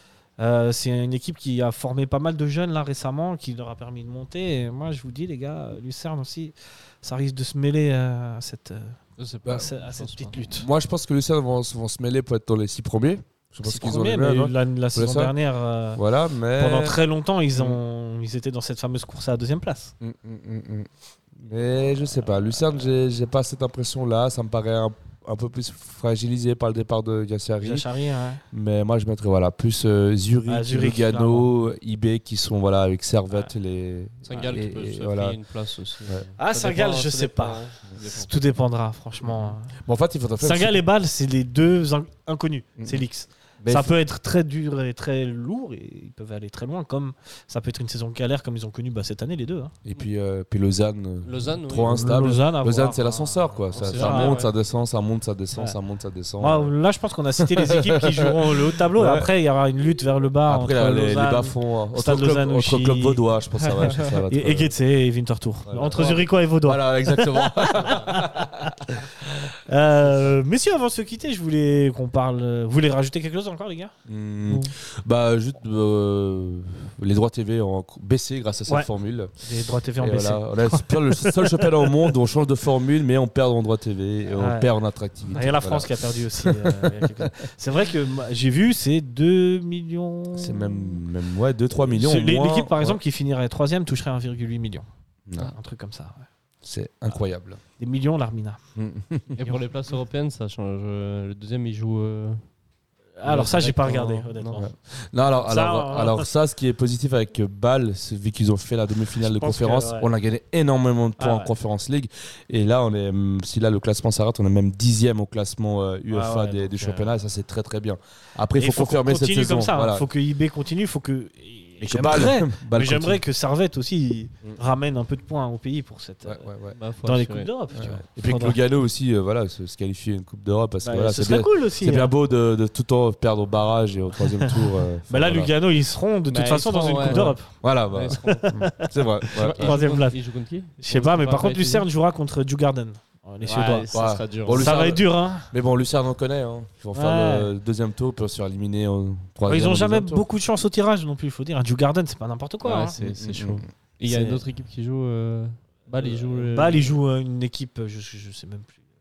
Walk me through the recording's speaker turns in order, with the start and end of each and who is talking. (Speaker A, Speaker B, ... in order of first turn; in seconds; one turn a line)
Speaker A: 0.4-10.7
Speaker B: 9.2-10.3
Speaker C: 9.4-9.7
Speaker C: 10.3-15.3
Speaker A: 13.6-16.0
Speaker C: 15.9-17.0
Speaker A: 16.6-19.9
Speaker C: 17.6-17.8
Speaker C: 20.0-27.9
Speaker A: 27.6-28.4
Speaker C: 28.5-35.4
Speaker A: 30.5-31.6
Speaker B: 34.2-38.3
Speaker A: 36.4-39.8
Speaker C: 39.2-40.8
Speaker A: 40.4-49.8
Speaker C: 42.8-43.0
Speaker C: 43.6-44.0
Speaker C: 49.9-56.7
Speaker B: 51.2-52.0
Speaker A: 51.8-54.5
Speaker B: 53.8-54.5
Speaker A: 56.4-73.9
Speaker C: 57.4-59.3
Speaker C: 60.5-64.8
Speaker C: 65.7-69.4
Speaker C: 74.1-79.3
Speaker A: 74.5-74.7
Speaker A: 79.4-82.1
Speaker C: 80.0-87.3
Speaker A: 84.4-84.7
Speaker A: 85.3-91.0
Speaker C: 90.4-93.0
Speaker A: 91.8-96.3
Speaker C: 95.3-95.5
Speaker C: 96.6-97.6
Speaker A: 97.8-98.6
Speaker C: 98.8-99.4
Speaker B: 99.3-102.4
Speaker A: 103.2-104.7
Speaker B: 103.2-104.6
Speaker C: 104.6-120.1
Speaker A: 105.3-106.3
Speaker A: 109.2-110.1
Speaker A: 111.2-111.5
Speaker A: 116.1-117.1
Speaker A: 118.6-126.5
Speaker C: 121.8-123.2
Speaker C: 126.2-126.8
Speaker B: 126.7-127.5
Speaker A: 127.0-128.6
Speaker C: 127.7-135.5
Speaker A: 130.8-132.1
Speaker A: 134.4-137.5
Speaker B: 136.3-138.6
Speaker C: 137.1-139.8
Speaker A: 138.1-140.2
Speaker B: 139.3-141.9
Speaker A: 140.8-144.0
Speaker B: 143.4-144.9
Speaker C: 143.9-150.2
Speaker A: 144.5-145.5
Speaker A: 146.9-147.5
Speaker A: 149.5-153.0
Speaker B: 152.6-157.0
Speaker C: 153.0-153.7
Speaker A: 154.0-154.4
Speaker A: 155.9-158.8